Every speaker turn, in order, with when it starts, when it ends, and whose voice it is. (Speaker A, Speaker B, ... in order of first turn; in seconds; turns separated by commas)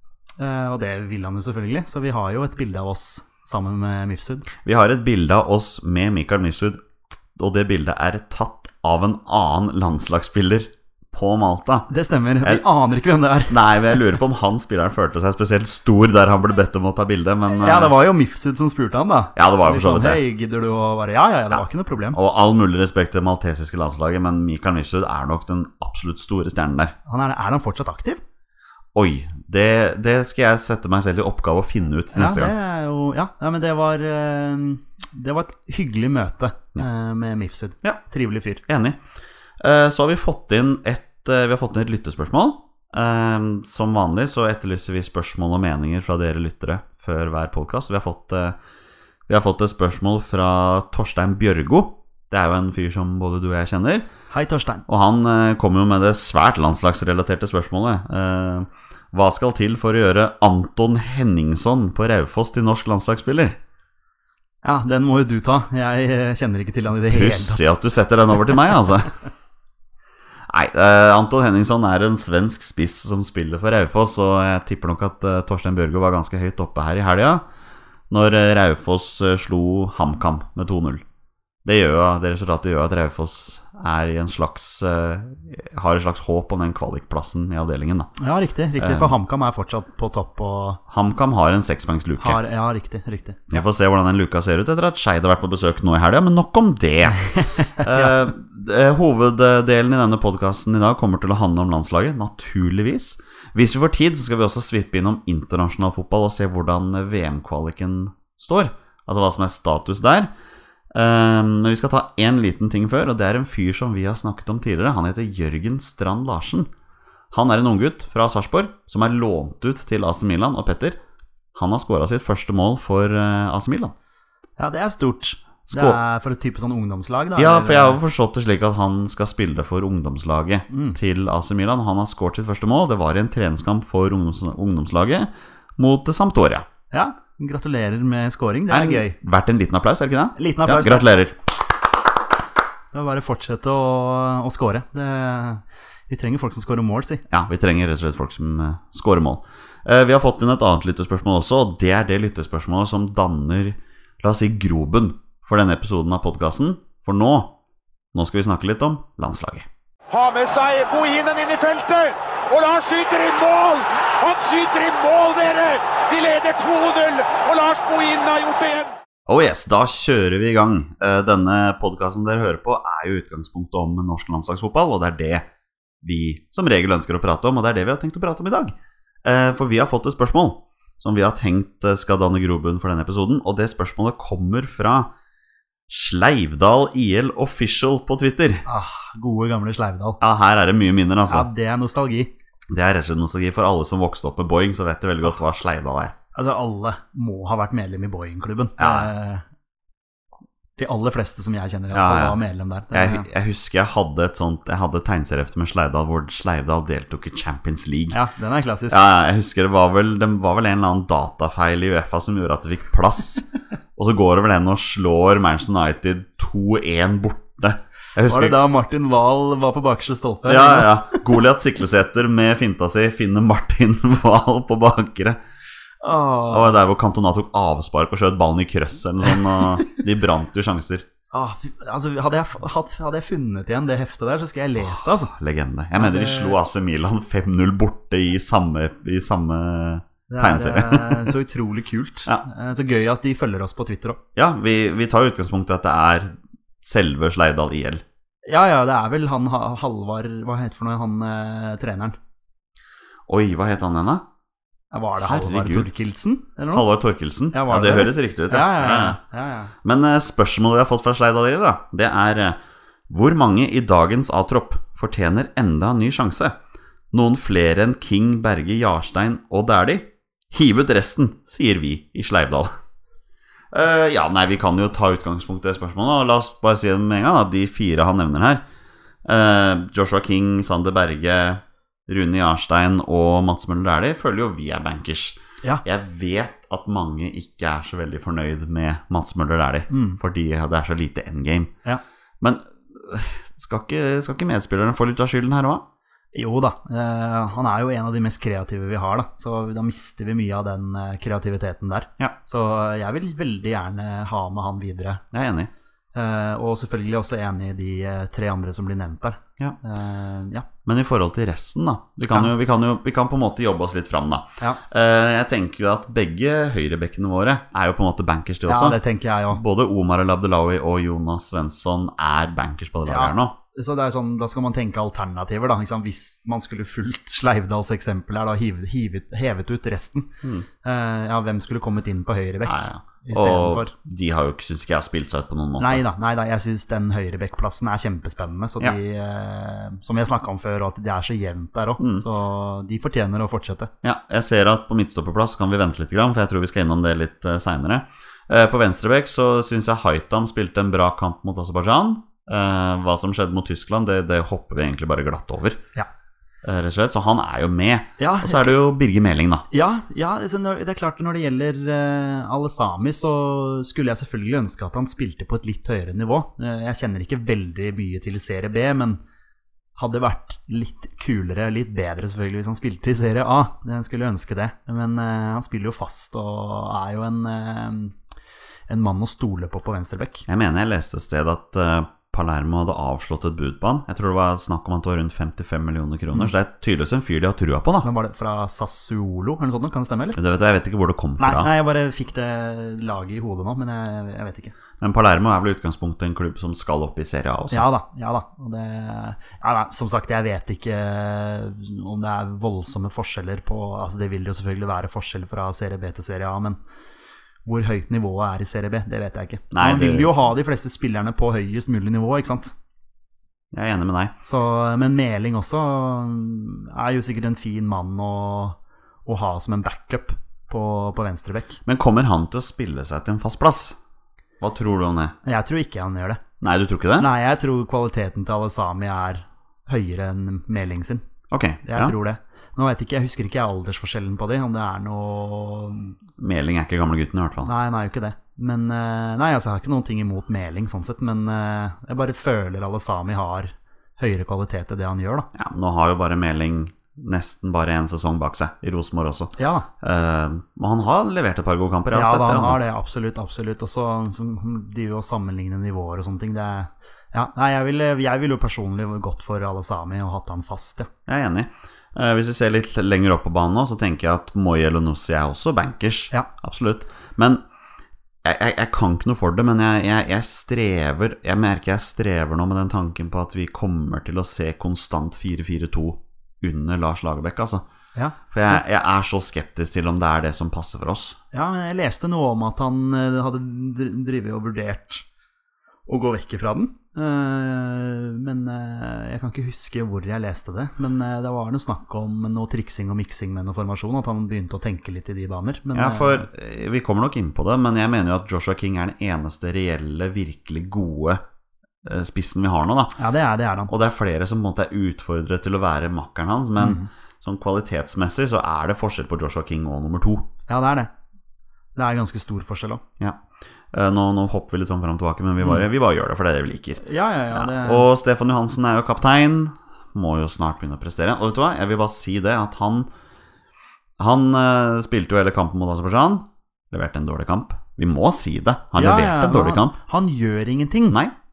Speaker A: 0.4-4.5, Speaker B: 4.6-11.9, Speaker A: 11.9-13.7, Speaker B: 13.5-17.9, Speaker A: 17.5-22.2, Speaker B: 19.4-20.2, Speaker B: 22.1-26.9, Speaker A: 27.1-28.2, Speaker B: 28.9-32.5, Speaker A: 32.1-38.6, Speaker B: 38.7-39.0, Speaker B: 39.6-48.6, Speaker B: 49.3-54.1, Speaker A: 54.3-54.8, Speaker B: 54.9-63.6, Speaker A: 64.6-67.7, Speaker B: 67.1-69.1, Speaker B: 70.5-77.4, Speaker B: 78.1-81.0, Speaker B: 81.6-88.1, Speaker A: 88.2-90.8, Speaker B: 88.8-89.1, Speaker B: 90.9-92.4, Speaker A: 92.2-93.5, Speaker B: 93.5-110.3, Speaker A: 97.7-98.1, Speaker B: 110.9-116.7, Speaker B: 117.3-121.0, Speaker B: 121.5-123.9, Speaker A: 124.6-128.0, Speaker B: 125.7-126.0, Speaker B: 127.3-136.7, Speaker A: 130.7-131.0, Speaker A: 136.9-139.2, Speaker B: 138.7-141.4, Speaker A: 140.3-141.1, Speaker A: 142.9-147.2, Speaker B: 147.3-157.5, Speaker B: 158.1-159.7, Speaker C: 160.1-168.9, Speaker B: 169.3-175.5, Speaker B: 176.0-185.1, Speaker B: 185.9-188.6, Speaker A: 188.7-190.2, Speaker B: 190.2-191.5, Speaker A: 191.3-192.3, Speaker B: 192.7-196.1, Speaker A: 196.3-199.4, Speaker B: 198.8-199.1, Speaker A: 200.8-203.3, Speaker B: 201.9-208.2, Speaker A: 208.1-209.0, Speaker B: 208.9-213.4, Speaker B: 213.9-218.6, Speaker A: 218.2-221.2, Speaker B: 220.4-225.4, Speaker A: 226.0-226.7, Speaker B: 226.5-231.1, Speaker A: 231.3-235.3, Speaker B: 235.1-241.3, Speaker A: 236.0-236.6, Speaker A: 240.3-244.2, Speaker B: 244.3-248.0, Speaker A: 248.4-252.2, Speaker B: 253.3-254.2, Speaker A: 254.9-256.9, Speaker B: 255.2-255.9, Speaker B: 256.7-259.2, Speaker A: 257.5-259.7, Speaker B: 259.8-266.6, Speaker B: 267.1-272.7, Speaker B: 273.7-278.6, Speaker B: 279.2-291.7, Speaker A: 289.9-290.2, Speaker B: 292.4-295.8, Speaker A: 296.3-305.2, Speaker B: 305.3-305.7, Speaker A: 306.1-310.7, Speaker B: 310.8-323.6, Speaker A: 318.6-319.6, Speaker A: 323.0-333.9, Speaker B: 332.6-336.0, Speaker A: 335.8-343.9, Speaker B: 342.0-342.2, Speaker B: 344.0-355.8, Speaker B: 356.6-359.6, Speaker A: 358.2-358.8, Speaker A: 359.7-369.2, Speaker A: 369.9-378.1, Speaker A: 378.9-380.4, Speaker B: 380.5-388.1, Speaker A: 388.0-390.4, Speaker B: 390.3-391.7, Speaker A: 391.4-394.7, Speaker B: 395.0-397.9, Speaker A: 397.7-406.8, Speaker A: 407.6-412.7, Speaker B: 409.7-410.3, Speaker B: 413.7-414.3, Speaker A: 414.4-421.8, Speaker B: 421.8-424.0, Speaker B: 424.6-425.4, Speaker A: 425.4-426.4, Speaker B: 426.6-427.3, Speaker A: 427.2-431.2, Speaker B: 431.5-432.1, Speaker A: 431.8-436.1, Speaker B: 436.4-437.7, Speaker A: 437.6-445.5, Speaker B: 445.5-452.8, Speaker A: 449.6-449.9, Speaker A: 452.1-461.1, Speaker B: 461.3-467.6, Speaker B: 468.4-477.8, Speaker A: 478.1-478.8, Speaker B: 478.5-481.4, Speaker A: 481.5-485.2, Speaker A: 486.1-496.4, Speaker B: 495.9-501.4, Speaker B: 502.0-503.2, Speaker A: 503.2-503.9, Speaker B: 503.9-510.5, Speaker A: 506.8-507.1, Speaker A: 510.7-511.1, Speaker A: 511.9-513.0, Speaker B: 513.9-523.1, Speaker A: 517.0-518.1, Speaker B: 524.2-530.0, Speaker A: 528.9-531.2, Speaker B: 531.1-531.3